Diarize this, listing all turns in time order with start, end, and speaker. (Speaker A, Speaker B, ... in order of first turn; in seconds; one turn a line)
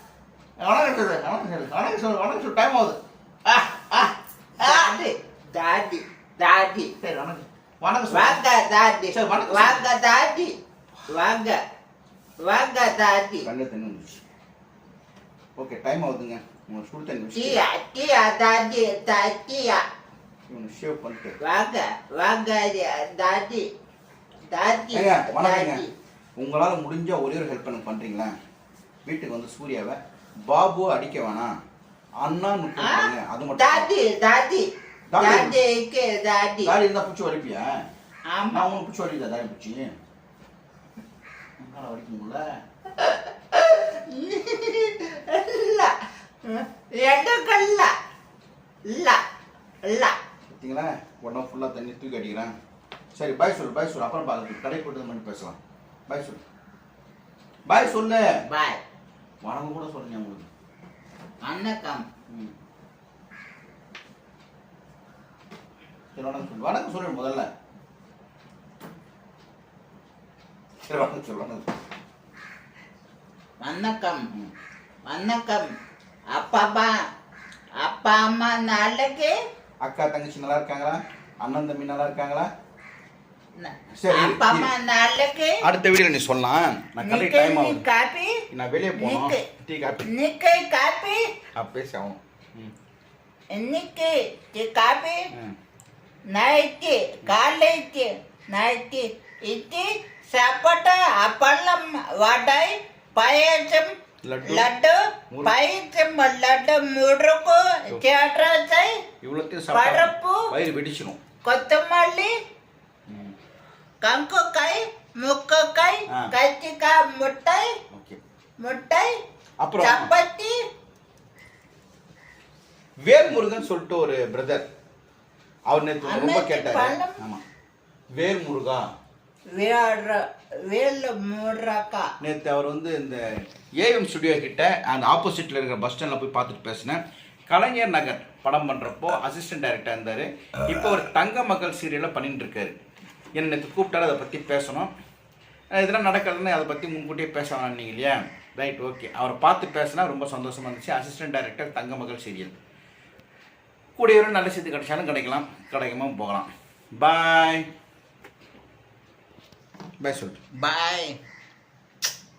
Speaker A: 0.6-5.0
Speaker B: 4.6-6.9
Speaker A: 7.0-8.4
Speaker B: 8.1-10.5
Speaker A: 9.1-9.8
Speaker B: 11.1-11.6
Speaker B: 12.4-13.4
Speaker A: 13.4-14.2
Speaker A: 15.6-17.6
Speaker B: 17.3-19.8
Speaker A: 20.5-21.4
Speaker B: 21.4-23.6
Speaker B: 24.5-25.9
Speaker A: 24.9-25.8
Speaker A: 26.4-28.3
Speaker A: 29.0-31.5
Speaker A: 32.2-33.9
Speaker B: 32.8-36.7
Speaker A: 35.1-35.6
Speaker A: 36.6-37.8
Speaker B: 38.3-38.7
Speaker A: 38.5-39.9
Speaker A: 41.6-42.4
Speaker B: 43.0-47.9
Speaker B: 48.9-49.2
Speaker B: 49.9-50.1
Speaker A: 50.5-52.5
Speaker A: 53.1-56.4
Speaker A: 57.7-58.3
Speaker B: 58.5-58.8
Speaker A: 59.4-60.5
Speaker B: 61.4-62.0
Speaker A: 66.1-67.5
Speaker A: 70.9-71.7
Speaker B: 73.6-74.2
Speaker B: 75.1-75.7
Speaker B: 76.3-77.0
Speaker B: 77.8-79.3
Speaker A: 79.8-82.5
Speaker B: 83.6-85.6
Speaker A: 83.9-84.7
Speaker A: 85.6-87.8
Speaker B: 87.0-88.4
Speaker A: 88.5-90.1
Speaker B: 89.0-89.4
Speaker B: 90.0-91.2
Speaker A: 91.5-92.7
Speaker B: 93.5-95.3
Speaker B: 96.3-103.9
Speaker A: 104.2-104.7
Speaker B: 104.4-109.0
Speaker A: 109.2-111.2
Speaker B: 109.7-110.4
Speaker B: 111.4-112.3
Speaker A: 113.1-113.3
Speaker B: 114.0-117.7
Speaker A: 117.9-118.2
Speaker B: 118.6-119.2
Speaker A: 119.6-120.1
Speaker B: 119.8-120.5
Speaker A: 123.0-124.7
Speaker A: 125.7-127.4
Speaker B: 126.0-127.2
Speaker A: 128.2-128.8
Speaker B: 129.6-132.1
Speaker A: 132.2-133.2
Speaker A: 133.8-142.8
Speaker A: 143.3-144.9
Speaker A: 145.7-152.6
Speaker A: 153.9-157.7
Speaker A: 160.0-160.4
Speaker B: 160.6-161.2